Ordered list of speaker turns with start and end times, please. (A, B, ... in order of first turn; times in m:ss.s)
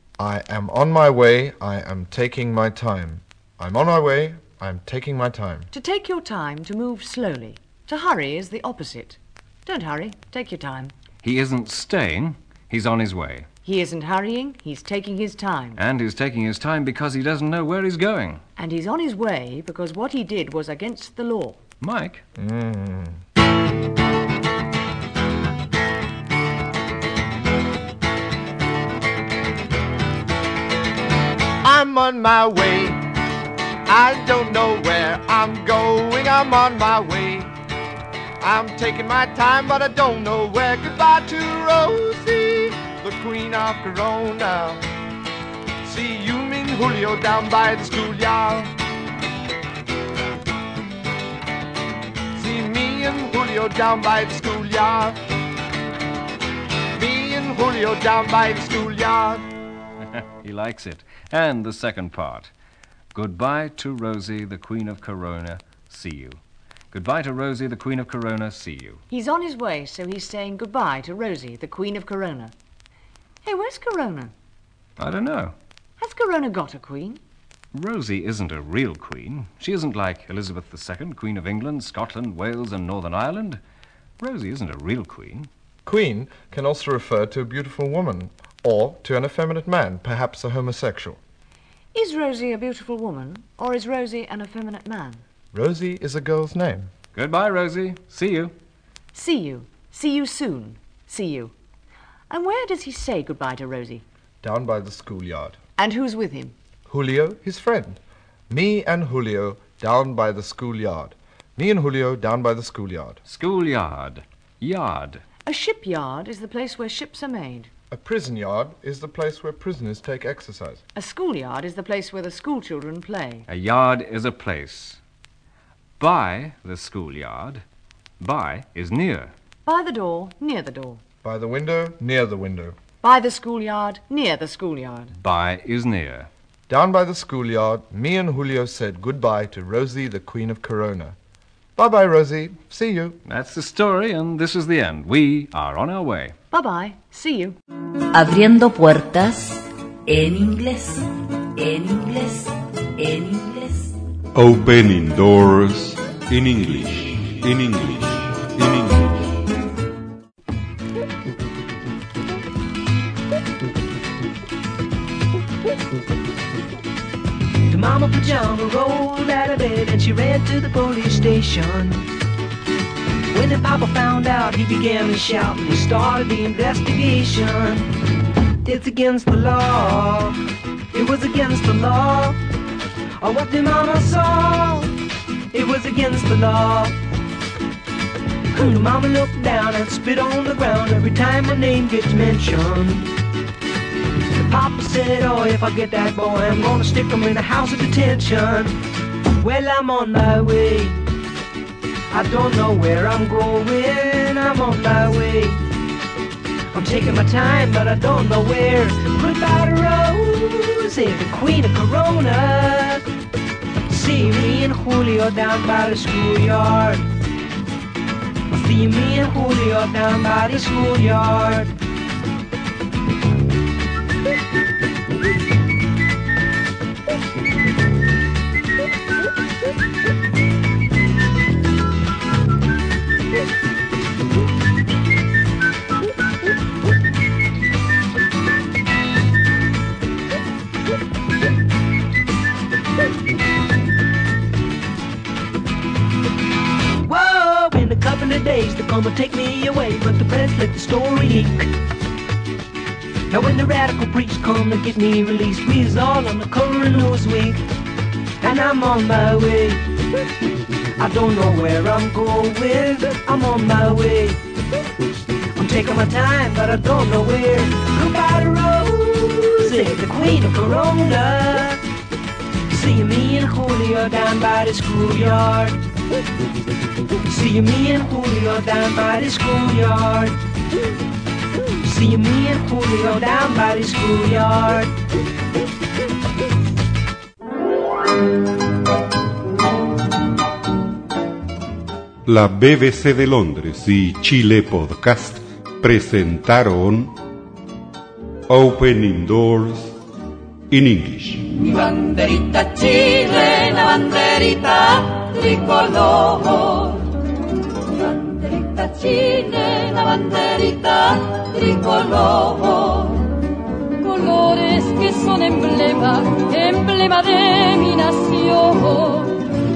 0:00.2-0:05.7 A
0:05.7-0:10.9 B
0:11.2-0:13.5 C
0:13.6-0:15.8 B
0:15.8-0:18.4 C
0:18.6-0:21.6 B
0:21.8-0:22.2 C
0:22.4-0:23.2 A
0:31.6-0:33.0 A
0:33.9-0:37.5 A
0:38.4-0:44.8 A
0:45.8-0:48.7 A
0:52.3-0:55.2 A
0:57.0-0:59.4 A
1:00.1-1:02.5 C
1:03.1-1:06.4 C
1:06.9-1:09.0 C
1:09.1-1:12.5 B
1:13.4-1:14.3 B
1:15.0-1:15.5 C
1:16.0-1:17.2 B
1:17.7-1:23.6 C
1:24.2-1:25.5 C
1:25.8-1:31.2 A
1:31.9-1:35.2 B
1:35.5-1:36.9 A
1:37.1-1:38.5 C
1:39.1-1:41.5 B
1:42.3-1:44.0 B
1:44.4-1:45.6 A
1:45.8-1:46.5 B
1:46.9-1:48.0 A
1:48.5-1:53.2 A
1:53.2-1:55.2 C
1:55.4-1:57.7 B
1:57.9-2:00.8 A
2:00.9-2:03.4 B
2:03.5-2:05.0 C
2:06.0-2:07.6 C
2:08.2-2:09.3 C
2:09.6-2:11.0 B
2:11.2-2:12.8 A
2:13.0-2:15.1 B
2:15.2-2:16.3 C
2:16.7-2:21.2 A
2:21.8-2:23.2 A
2:23.3-2:26.3 C
2:26.5-2:27.6 B
2:28.1-2:33.9 D
2:34.3-2:39.2 E
2:47.7-2:52.0 F
2:53.3-2:57.9 F
2:58.6-3:00.4 F
3:00.9-3:02.4 F
3:03.2-3:04.9 F
3:05.5-3:07.0 F
3:08.5-3:13.1 F
3:14.3-3:18.8 F
3:19.4-3:21.0 F
3:22.1-3:25.6 F
3:26.7-3:33.0 F
3:33.9-3:37.0 F
3:38.5-3:41.7 F
4:07.0-4:11.7 F
4:13.3-4:17.6 F
4:18.4-4:19.8 F
4:21.0-4:24.4 F
4:25.6-4:31.8 F
4:32.7-4:35.8 F
4:37.3-4:40.3 F
4:41.8-4:44.9 F
4:52.2-4:57.1 E
4:58.5-5:00.0 E
5:00.7-5:01.5 E
5:01.7-5:07.1 G
5:08.1-5:13.3 G
5:14.0-5:19.4 G